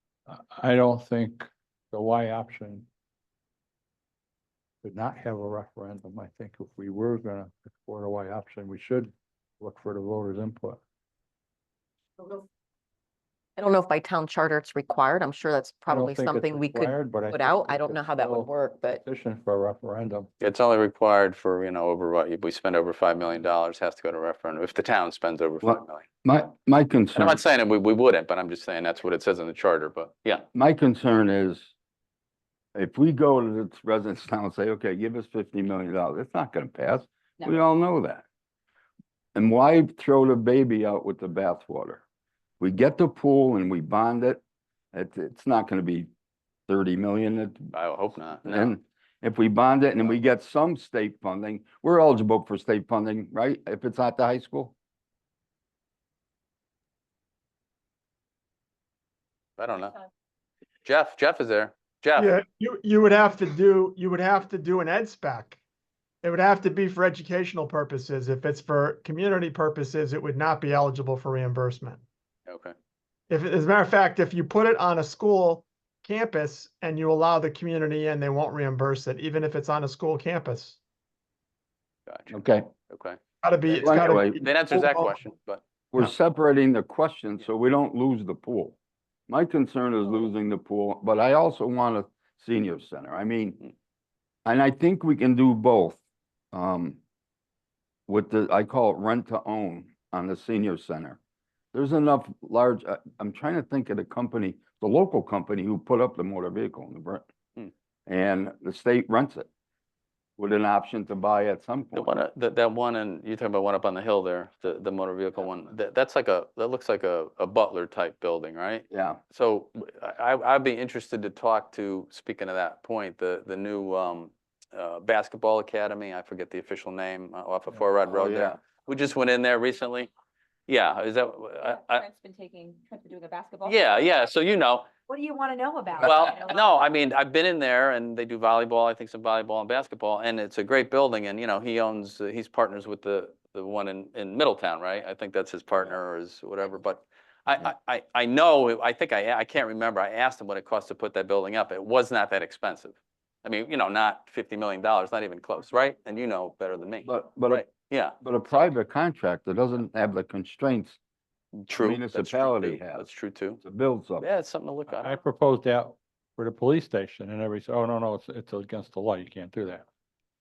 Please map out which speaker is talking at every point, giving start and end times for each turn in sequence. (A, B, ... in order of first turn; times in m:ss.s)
0:00.3-0:02.8 A
0:04.8-0:10.8 A
0:13.6-0:19.0 B
0:15.9-0:20.3 A
0:20.4-0:26.0 C
0:25.6-0:27.4 D
0:27.1-0:30.4 C
0:30.5-0:31.7 D
0:32.7-0:38.2 D
0:39.3-0:42.0 D
0:42.6-0:44.4 D
0:44.9-0:46.1 D
0:46.7-0:47.7 D
0:47.7-0:48.7 C
0:48.4-0:54.7 D
0:59.6-1:00.0 C
1:00.8-1:02.4 C
1:02.2-1:05.6 E
1:06.2-1:12.0 E
1:12.5-1:12.7 C
1:13.3-1:20.8 E
1:22.1-1:22.3 C
1:22.3-1:22.7 D
1:22.9-1:25.6 C
1:23.4-1:25.1 E
1:23.7-1:24.5 D
1:25.9-1:28.8 D
1:29.3-1:33.6 D
1:34.4-1:36.0 D
1:36.5-1:37.0 D
1:38.1-1:41.2 D
1:41.7-1:47.2 D
1:48.1-1:49.5 D
1:50.4-1:52.1 D
1:51.9-2:10.1 C
1:58.9-1:59.2 D
2:08.1-2:08.6 D
2:10.7-2:12.1 C
2:11.6-2:13.8 F
2:13.6-2:14.9 C
2:15.1-2:16.8 F
2:16.0-2:38.7 C
2:37.0-2:37.7 D
2:38.2-2:41.0 D
2:41.6-2:43.6 C
2:41.7-2:43.1 D
2:43.6-2:44.2 D
2:44.2-2:45.2 C
2:44.9-2:49.8 A